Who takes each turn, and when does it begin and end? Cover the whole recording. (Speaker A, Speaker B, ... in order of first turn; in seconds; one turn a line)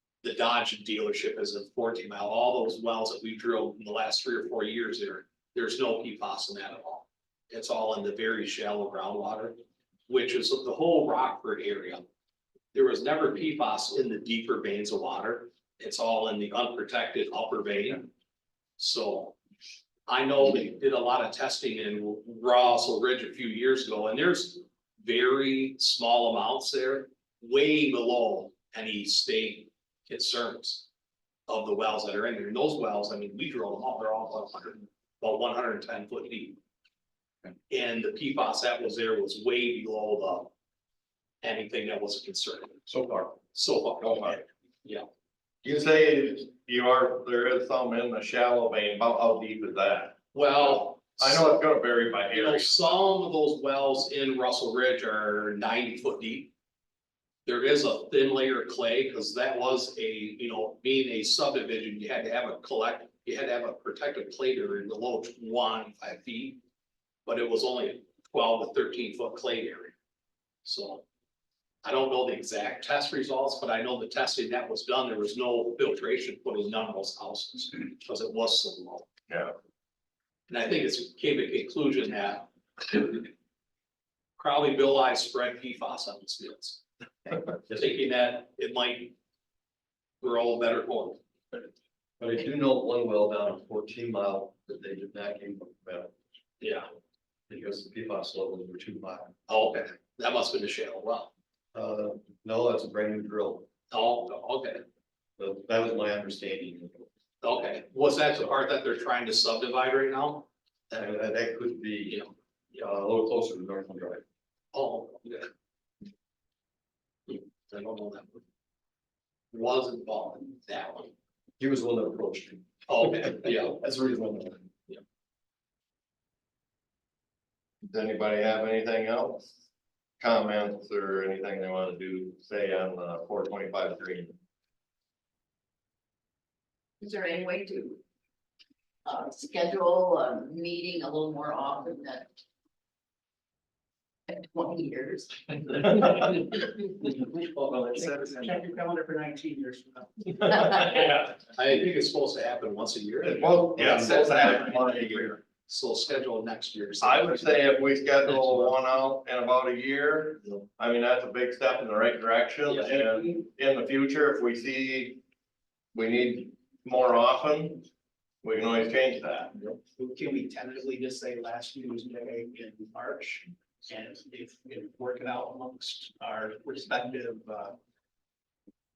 Speaker A: 0.2-12.1
Speaker A: 12.7-18.1
Speaker A: 18.8-19.4
Speaker A: 20.1-30.9
Speaker A: 31.5-36.6
Speaker A: 37.7-40.5
Speaker A: 41.4-42.8
Speaker B: 42.9-43.4
Speaker A: 43.5-45.0
Speaker C: 44.0-44.4
Speaker C: 45.6-52.9
Speaker A: 50.3-51.6
Speaker A: 52.3-56.5
Speaker A: 57.5-66.6
Speaker A: 67.3-70.0
Speaker A: 70.6-71.0
Speaker A: 71.8-79.1
Speaker A: 80.5-83.3
Speaker A: 84.4-89.2
Speaker A: 90.2-91.2
Speaker B: 92.2-96.1
Speaker A: 96.6-96.9
Speaker B: 97.5-99.3
Speaker A: 99.5-101.3
Speaker B: 101.7-103.7
Speaker A: 103.9-104.8
Speaker B: 105.4-107.1
Speaker A: 107.4-110.5
Speaker B: 110.9-114.2
Speaker A: 114.7-115.5
Speaker A: 117.3-118.4
Speaker A: 119.5-121.1
Speaker B: 121.6-124.7
Speaker A: 122.9-123.8
Speaker C: 127.8-129.6
Speaker C: 130.2-134.4
Speaker D: 137.0-138.0
Speaker D: 139.1-142.3
Speaker D: 144.3-146.4
Speaker E: 147.9-150.4
Speaker C: 150.8-151.2
Speaker A: 151.4-157.7
Speaker C: 153.2-154.8
Speaker C: 157.0-165.2
Speaker E: 162.8-163.3
Speaker C: 165.9-167.9
Speaker C: 168.4-169.6
Speaker E: 169.9-177.8